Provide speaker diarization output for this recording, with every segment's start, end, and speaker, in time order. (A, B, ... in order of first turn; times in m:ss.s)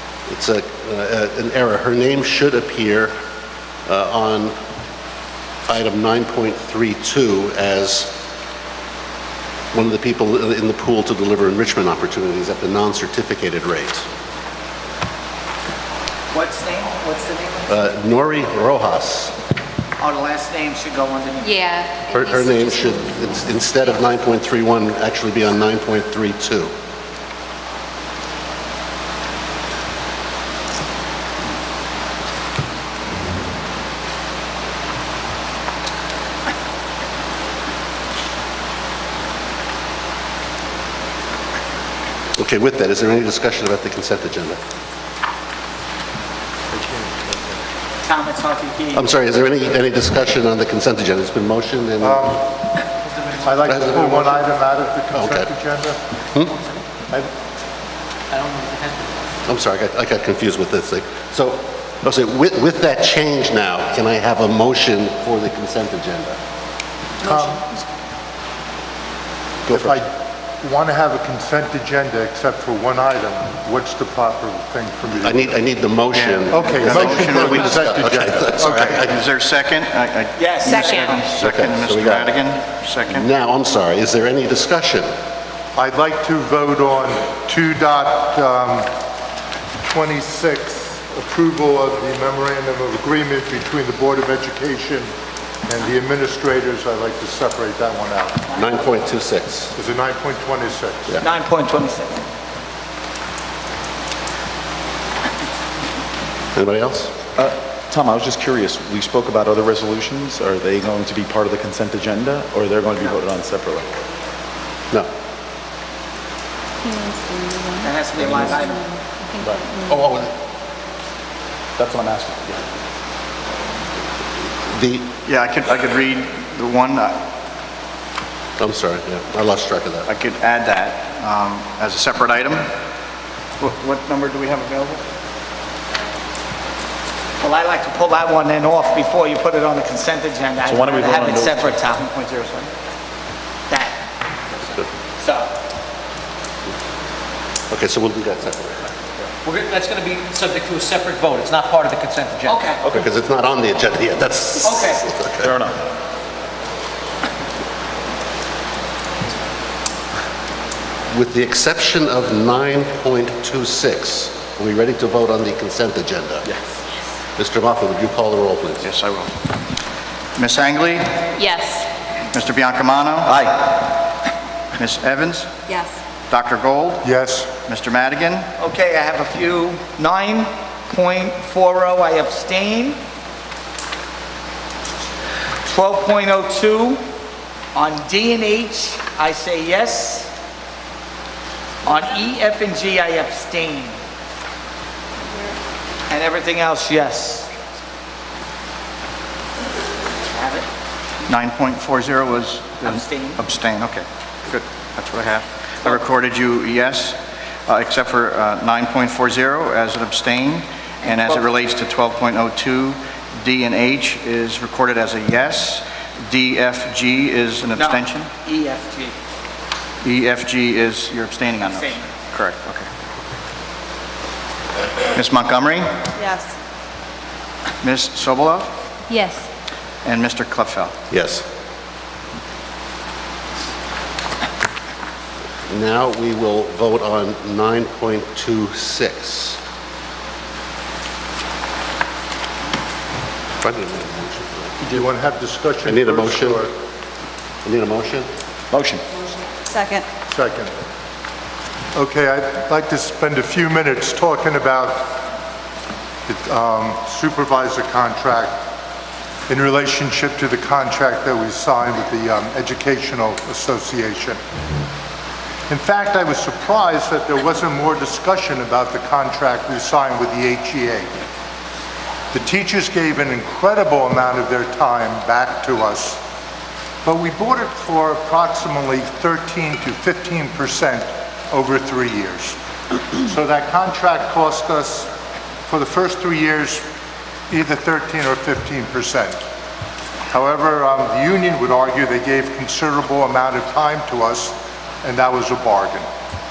0:00.3-0:03.1 A
0:03.9-0:04.6 A
0:05.7-0:08.2 A
0:09.7-0:14.1 A
0:16.3-0:17.7 B
0:17.7-0:19.3 A
0:20.0-0:21.7 B
0:21.4-0:22.9 C
0:22.1-0:26.7 A
0:42.4-0:44.6 A
0:46.7-0:47.6 D
0:48.0-0:49.1 B
0:48.9-0:52.5 A
0:52.0-0:52.4 D
0:53.4-0:56.0 D
0:53.6-0:54.4 A
0:55.1-0:55.5 A
0:58.3-0:59.2 E
0:59.4-1:06.4 A
1:07.2-1:07.7 D
1:09.6-1:10.0 A
1:09.7-1:15.5 D
1:15.2-1:19.2 A
1:16.1-1:17.8 F
1:16.5-1:19.1 D
1:18.9-1:23.3 F
1:20.4-1:21.3 B
1:21.3-1:22.4 A
1:23.1-1:25.1 A
1:25.8-1:28.9 D
1:29.8-1:35.1 D
1:35.7-1:38.4 D
1:38.5-1:39.7 A
1:39.7-1:41.2 D
1:41.2-1:42.2 B
1:46.5-1:47.1 A
1:47.4-1:53.9 G
1:56.8-2:00.0 C
1:57.8-1:58.8 B
1:59.9-2:00.3 A
2:01.8-2:02.6 G
2:04.7-2:05.1 A
2:05.2-2:07.2 F
2:08.6-2:10.1 A
2:10.0-2:12.7 F
2:13.6-2:15.0 F
2:17.4-2:22.1 B
2:20.6-2:21.8 G
2:22.0-2:22.7 F
2:23.7-2:23.9 B
2:25.2-2:25.5 B
2:27.7-2:28.8 A
2:29.4-2:32.6 E
2:32.4-2:32.9 B
2:32.8-2:35.5 A
2:34.6-2:35.0 B
2:35.4-2:35.8 G
2:41.1-2:46.5 A
2:47.4-2:48.9 A
2:48.8-2:49.3 F
2:50.4-2:51.3 F
2:51.4-2:51.9 C
2:52.3-2:54.1 F
2:54.8-2:55.5 F
2:55.7-2:55.9 C
2:56.3-2:57.1 F
2:57.0-2:57.5 D
2:57.6-2:58.5 F
2:58.6-3:03.0 B
3:05.6-3:07.0 B
3:07.7-3:10.3 B
3:11.8-3:14.0 B
3:16.1-3:17.5 B
3:20.2-3:20.7 B
3:21.3-3:38.3 F
3:22.8-3:23.4 B
3:31.0-3:31.5 B
3:37.7-3:39.2 B
3:40.0-3:42.9 F
3:41.6-3:42.1 B
3:45.1-3:46.1 F
3:47.8-3:48.7 F
3:49.1-3:49.4 C
3:50.0-3:51.0 F
3:51.1-3:51.4 A
3:55.7-3:59.6 A
4:03.6-4:04.9 A
4:04.8-4:06.7 D
4:05.8-4:06.7 A
4:07.6-4:08.3 A
4:08.7-4:09.0 G
4:10.3-4:10.7 D
4:11.9-4:15.2 D
4:16.3-4:18.6 D
4:19.5-4:24.4 D
4:25.7-4:31.1 D
4:32.3-4:36.2 D
4:37.0-4:42.6 D
4:43.2-4:45.1 D
4:45.7-4:46.8 D
4:47.5-4:49.4 D
4:50.3-4:56.1 D